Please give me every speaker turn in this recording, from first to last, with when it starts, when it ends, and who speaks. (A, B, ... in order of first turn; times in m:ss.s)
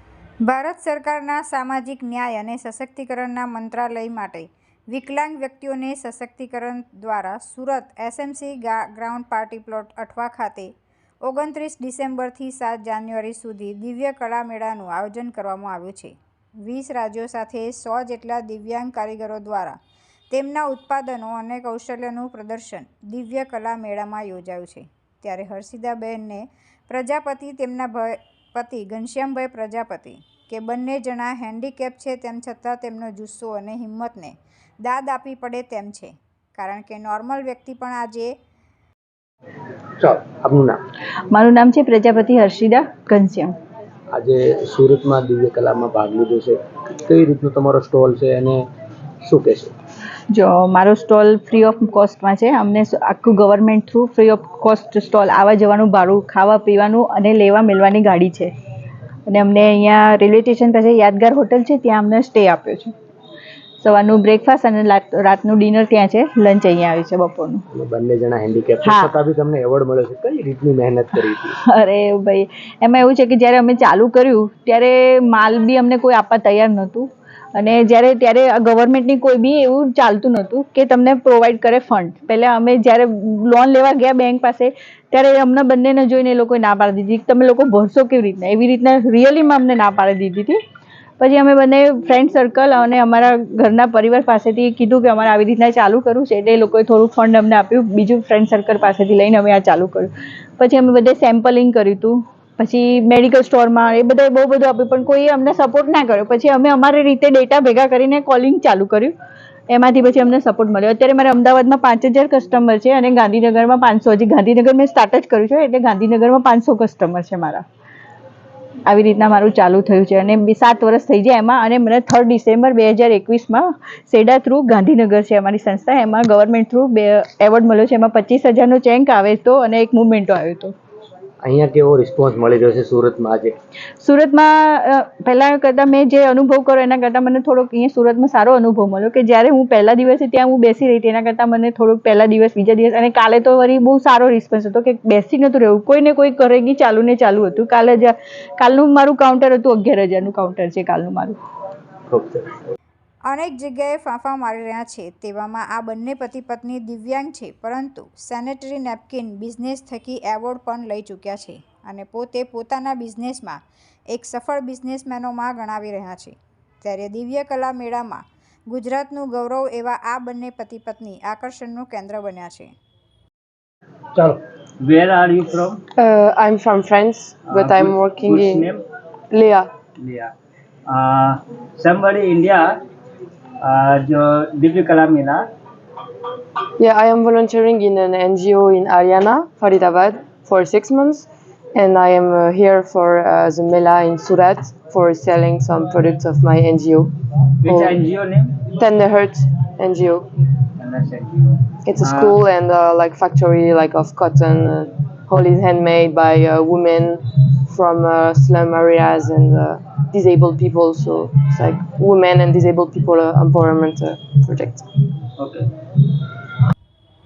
0:00.5-0:10.7 A
0:11.2-0:19.8 A
0:20.3-0:38.3 A
0:40.0-0:40.8 B
0:41.3-0:43.5 C
0:44.1-0:48.6 B
0:49.2-0:49.7 B
0:50.3-0:58.5 C
0:59.3-1:02.9 C
1:03.8-1:07.6 C
1:07.7-1:11.6 B
1:08.8-1:09.1 C
1:11.5-1:30.6 C
1:31.2-1:49.1 C
1:49.7-1:57.6 C
1:58.8-2:10.7 C
2:11.4-2:13.6 B
2:14.0-2:31.4 C
2:32.1-2:32.4 B
2:33.3-2:52.7 A
2:54.2-2:55.8 D
2:56.0-2:58.7 E
2:57.5-2:58.8 D
2:59.3-2:59.7 E
3:00.0-3:00.3 D
3:00.9-3:02.7 D
3:03.6-3:05.4 D
3:06.8-3:17.1 E
3:17.6-3:18.6 D
3:17.7-3:18.0 E
3:18.8-3:20.3 E
3:20.8-3:22.4 D
3:21.8-3:34.8 E
3:35.4-3:35.7 D